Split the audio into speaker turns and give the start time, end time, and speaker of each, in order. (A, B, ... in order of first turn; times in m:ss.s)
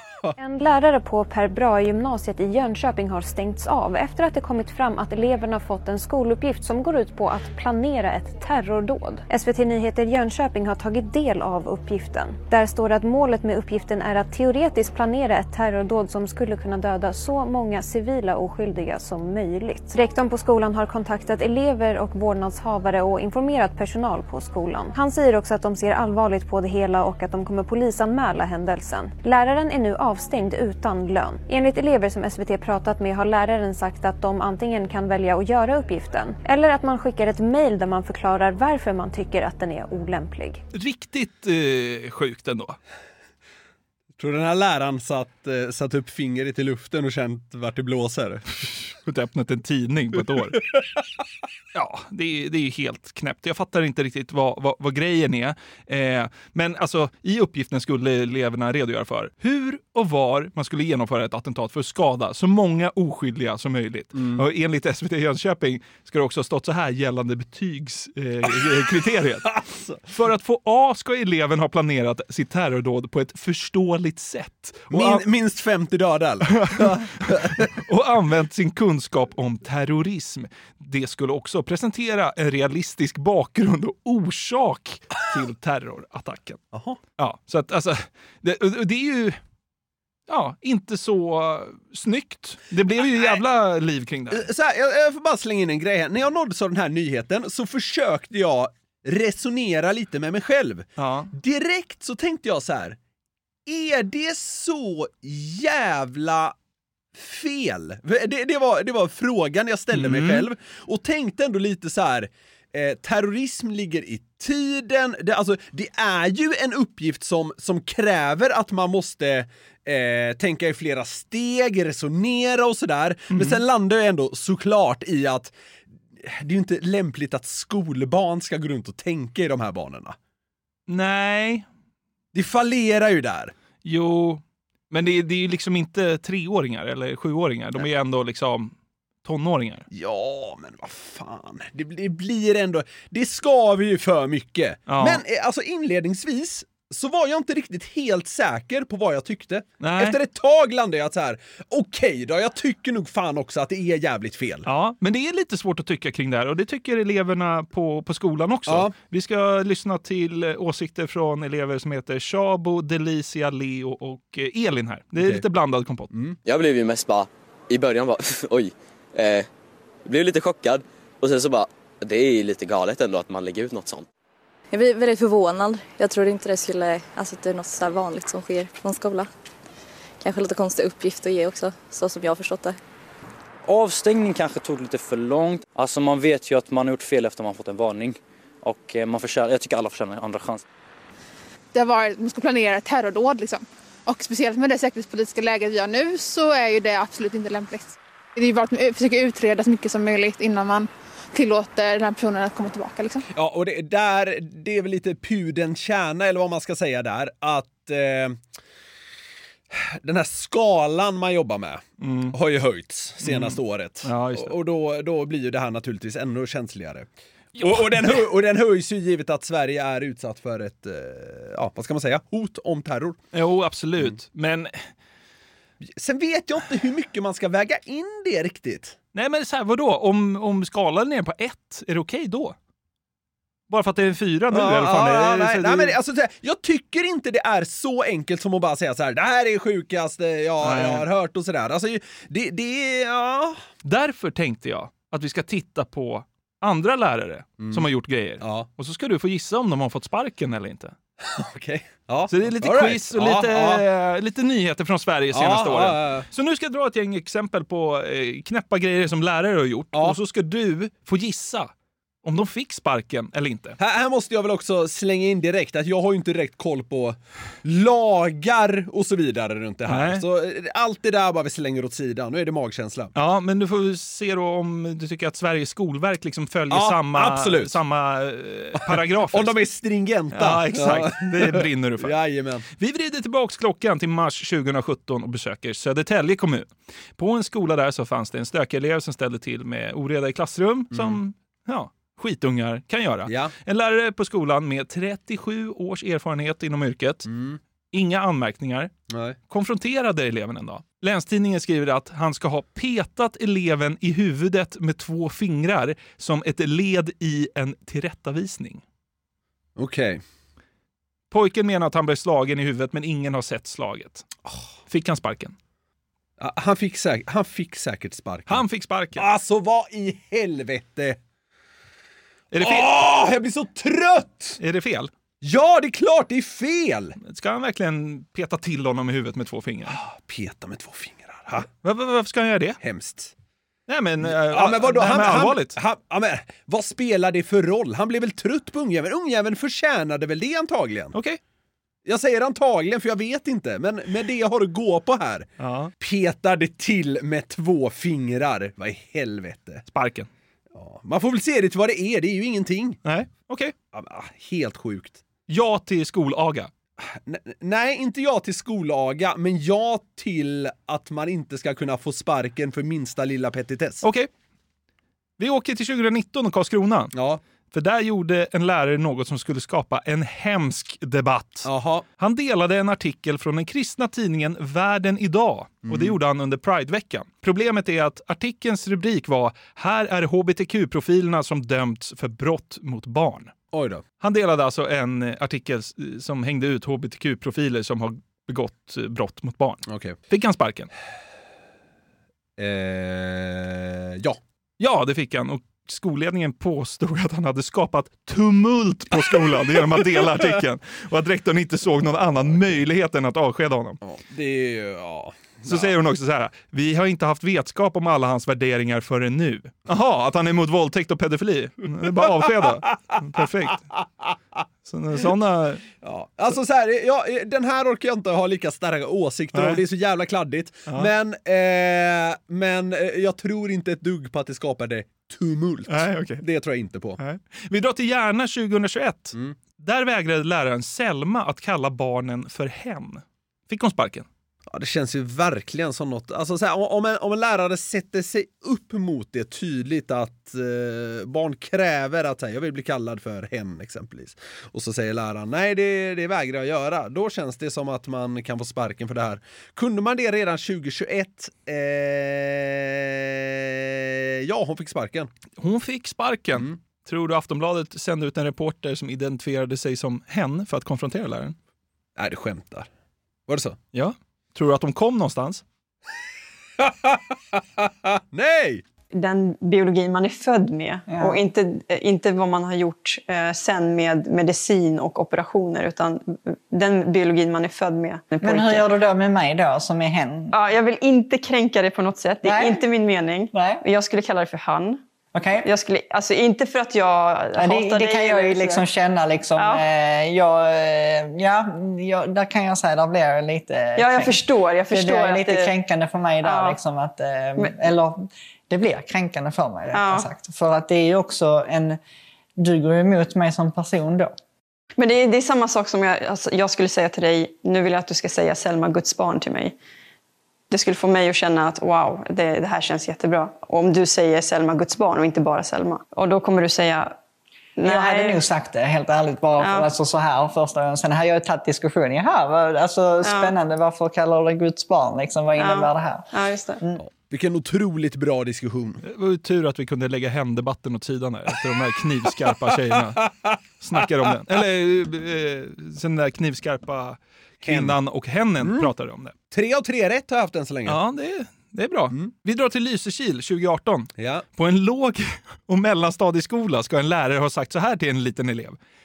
0:00.4-0:40.6 A
0:40.7-0:42.8 B
0:44.2-0:48.6 C
0:48.9-0:50.6 B
0:51.7-1:09.6 B
1:04.1-1:04.4 C
1:09.5-1:10.0 C
1:10.1-1:15.2 B
1:14.9-1:17.7 C
1:16.5-1:26.6 B
1:26.7-1:27.0 C
1:27.2-1:29.4 B
1:30.3-1:34.5 B
1:33.0-1:33.4 C
1:34.3-1:43.0 C
1:41.0-1:41.3 B
1:43.7-1:46.5 C
1:47.1-2:05.5 C
1:49.9-1:50.5 B
2:03.3-2:03.6 B
2:06.2-2:10.1 C
2:10.9-2:11.6 B
2:12.3-2:13.5 C
2:13.8-2:18.7 B
2:19.2-2:19.9 B
2:19.9-2:34.7 C
2:24.9-2:25.2 B
2:29.8-2:30.2 B
2:34.6-2:46.1 B
2:38.7-2:38.9 C
2:45.2-2:45.4 C
2:46.1-2:46.4 C
2:46.4-2:49.5 D
2:50.0-2:54.1 D
2:54.7-2:59.3 E
3:00.2-3:02.8 E
3:03.6-3:10.6 F
3:11.7-3:23.2 G
3:23.3-3:28.4 C
3:29.7-3:37.1 C
3:32.0-3:32.4 B
3:33.2-3:34.6 B
3:37.6-3:38.3 B
3:37.6-3:43.2 C
3:43.3-3:44.8 B
3:45.8-3:49.0 C
3:49.1-3:52.6 B
3:53.7-3:56.0 B
3:54.5-4:03.6 C
4:00.6-4:01.0 B
4:03.8-4:10.9 B
4:07.6-4:07.9 C
4:08.4-4:08.6 C
4:11.2-4:13.8 C
4:12.3-4:21.7 B
4:15.3-4:16.3 C
4:22.2-4:23.8 B
4:23.8-4:33.1 C
4:29.9-4:30.2 B
4:33.1-4:39.6 B
4:36.7-4:37.7 C
4:38.8-4:42.7 C
4:40.3-4:42.2 B
4:42.8-4:57.3 B
4:50.9-4:51.2 C
4:53.3-4:53.5 C
4:57.3-4:57.6 C
4:57.9-4:58.9 B
4:59.1-4:59.4 C
4:59.5-5:08.8 B
5:09.8-5:10.2 C
5:11.3-5:14.3 B
5:14.9-5:15.5 B
5:16.4-5:18.6 C
5:18.5-5:19.2 B
5:19.2-5:21.2 C
5:22.5-5:23.0 B
5:22.6-5:24.6 C
5:24.6-5:25.1 B
5:25.4-5:27.2 C
5:27.2-5:30.0 B
5:29.9-5:31.7 C
5:31.8-5:32.8 B
5:32.8-5:33.3 C
5:33.9-5:35.8 B
5:34.2-5:41.1 C
5:41.1-5:41.4 B
5:42.0-5:45.5 C
5:45.6-5:45.9 B
5:46.0-5:49.8 C
5:49.9-5:50.3 B
5:50.7-5:53.0 C
5:53.0-5:53.7 B
5:53.9-5:55.2 C
5:55.5-5:56.7 B
5:57.0-6:04.0 C
6:04.0-6:04.3 B
6:05.4-6:07.1 B
6:07.1-6:07.4 C
6:07.7-6:11.7 B
6:11.6-6:12.0 C
6:12.2-6:23.5 B
6:15.8-6:16.2 C
6:23.7-6:24.0 C
6:24.2-6:30.9 B
6:29.9-6:30.2 C
6:32.6-6:34.4 C
6:34.8-6:44.0 B
6:39.9-6:40.3 C
6:44.0-6:45.9 C
6:45.6-6:53.9 B
6:54.8-6:55.8 B
6:56.0-7:07.2 C
6:59.5-6:59.8 B
7:05.9-7:06.4 B
7:07.2-7:14.3 B
7:14.7-7:35.3 C
7:35.6-7:41.5 B
7:42.2-7:42.9 C
7:43.5-7:43.8 C
7:43.9-7:45.6 B
7:46.8-7:48.8 C
7:49.1-7:58.9 H
7:51.1-7:51.4 I
7:58.4-8:00.5 I
8:00.5-8:05.0 H
8:02.4-8:02.8 I
8:03.5-8:03.8 I
8:05.3-8:05.7 I
8:05.6-8:08.9 H
8:07.6-8:22.0 I
8:09.6-8:09.8 H
8:14.0-8:15.7 H
8:16.4-8:16.8 H
8:19.9-8:20.3 H
8:22.6-8:24.3 I
8:25.0-8:29.8 H
8:30.7-8:37.2 H
8:37.8-8:38.4 H
8:37.8-8:46.3 I
8:39.6-8:39.9 H
8:43.2-8:43.6 H
8:45.6-8:46.8 H
8:47.0-8:49.0 C
8:49.0-8:53.3 B
8:53.8-8:59.3 B
8:57.6-8:58.0 C
8:58.6-8:58.9 C
8:59.5-9:01.0 C
9:00.8-9:08.8 B
9:04.2-9:04.4 C